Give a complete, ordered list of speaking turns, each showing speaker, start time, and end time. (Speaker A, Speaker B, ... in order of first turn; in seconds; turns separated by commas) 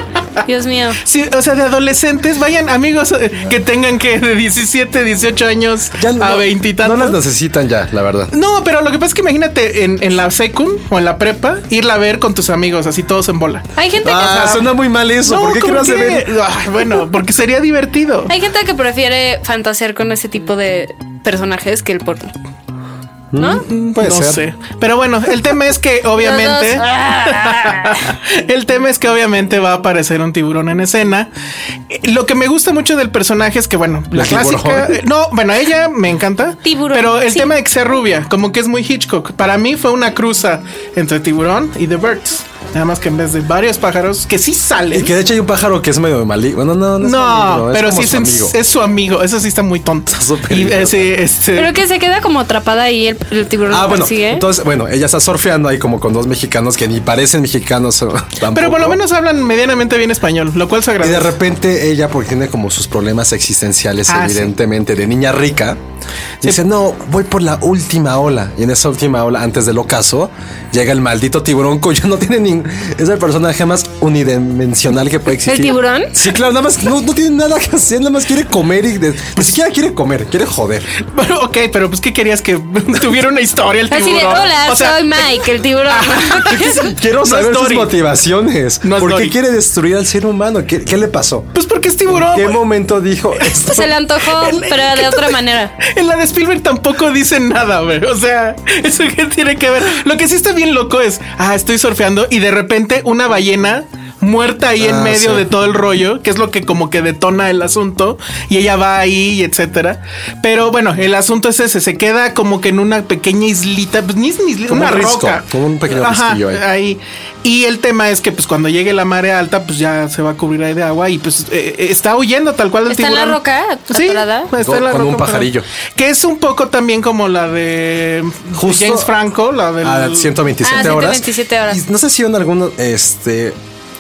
Speaker A: 0.5-1.0, Speaker B: 1.0-7.2, Speaker C: 6.0-8.3, Speaker B: 8.3-14.7, Speaker A: 13.8-14.6, Speaker C: 14.0-16.3, Speaker B: 15.2-18.3, Speaker A: 18.3-22.3, Speaker C: 23.3-24.4, Speaker A: 23.4-23.6, Speaker B: 23.7-31.3, Speaker A: 26.2-28.1, Speaker B: 31.9-45.1, Speaker C: 34.1-35.0, Speaker A: 36.6-37.5, Speaker C: 44.9-48.6, Speaker B: 47.0-51.8, Speaker C: 50.1-51.2, Speaker A: 51.6-54.5, Speaker C: 53.7-59.0, Speaker B: 58.5-61.4, Speaker C: 61.0-65.8, Speaker B: 64.1-64.5, Speaker C: 66.4-80.9, Speaker A: 75.5-76.2, Speaker B: 81.0-87.9, Speaker A: 83.9-86.8, Speaker C: 86.6-91.5, Speaker B: 88.8-89.4, Speaker B: 91.5-92.7, Speaker C: 92.1-93.9, Speaker B: 93.4-130.3, Speaker A: 93.7-95.7, Speaker C: 104.8-105.5, Speaker C: 114.7-116.7, Speaker A: 122.9-124.5, Speaker C: 124.6-125.7, Speaker C: 128.5-129.1, Speaker C: 129.8-133.6, Speaker A: 130.6-131.8